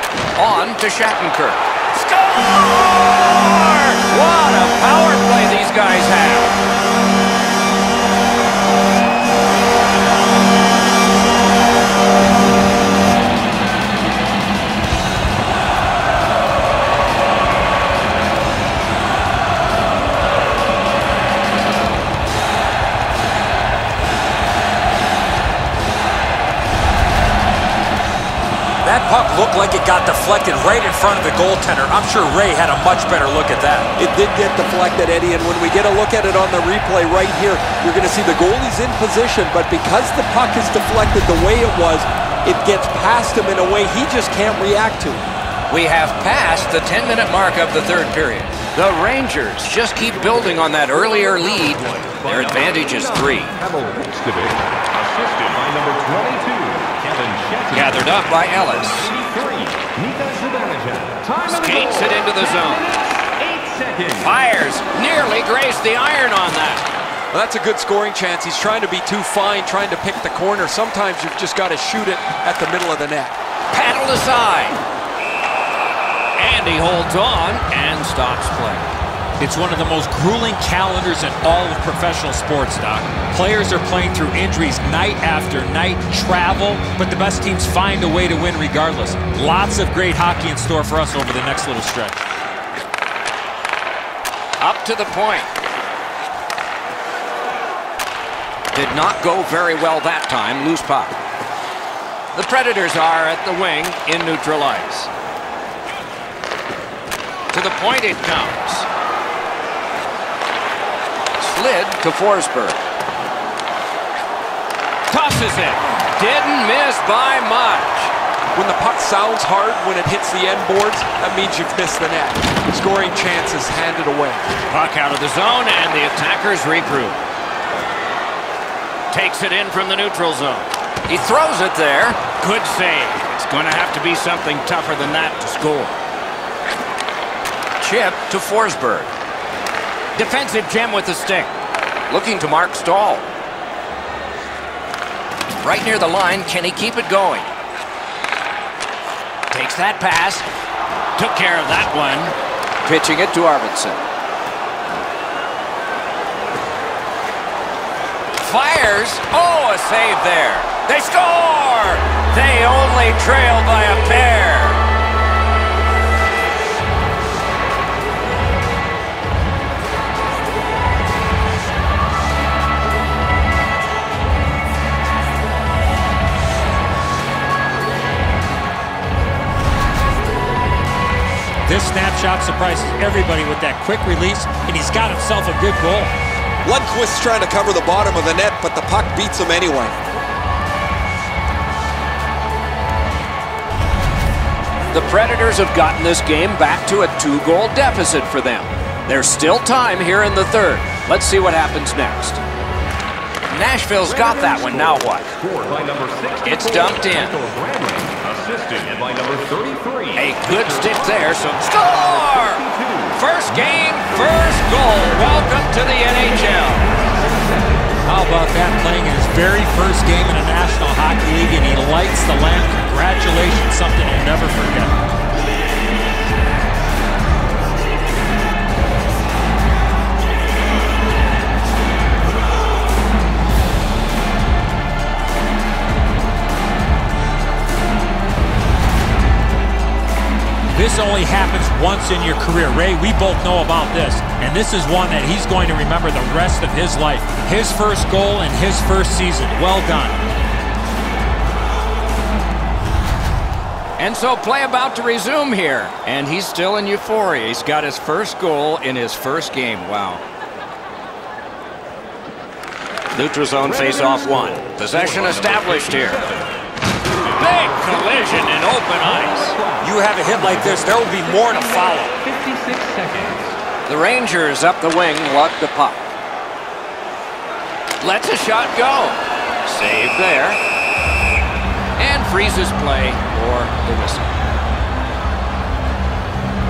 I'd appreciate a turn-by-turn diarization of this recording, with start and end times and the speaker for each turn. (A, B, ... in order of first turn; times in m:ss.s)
0:00.4-0:06.6 A
0:28.8-0:33.9 B
0:34.0-0:45.3 C
0:45.7-0:53.5 A
0:50.0-1:04.4 D
0:57.7-0:59.1 A
1:01.5-1:02.8 A
1:04.2-1:06.9 A
1:07.3-1:13.3 C
1:13.7-1:14.8 A
1:16.4-1:19.0 A
1:19.4-1:32.3 B
1:34.6-1:35.5 A
1:38.7-1:41.2 A
1:42.3-1:45.1 A
1:47.5-1:48.9 A
1:51.4-1:52.8 A
1:55.1-1:58.1 A
1:58.5-2:04.4 C
2:04.7-2:07.2 A
2:09.1-2:16.0 A
2:17.8-2:19.1 A
2:20.2-2:21.5 A
2:22.1-2:23.3 A
2:25.6-2:27.5 A
2:29.5-2:30.5 A
2:31.2-2:34.0 A
2:38.4-2:44.8 A
3:01.7-3:06.1 B
3:06.6-3:10.0 C
3:14.9-3:22.4 A
3:23.5-3:25.3 A
3:24.0-3:33.7 D
3:26.4-3:27.4 A
3:30.2-3:32.6 A
3:33.1-3:36.9 A
3:36.5-3:38.0 D
3:38.1-3:45.1 B
4:00.7-4:10.2 B
4:14.0-4:20.2 A
4:23.2-4:26.2 A
4:23.6-4:33.6 D
4:27.4-4:29.6 A
4:29.8-4:32.1 B
4:33.9-4:36.1 A
4:38.0-4:40.6 A
4:42.0-4:44.4 A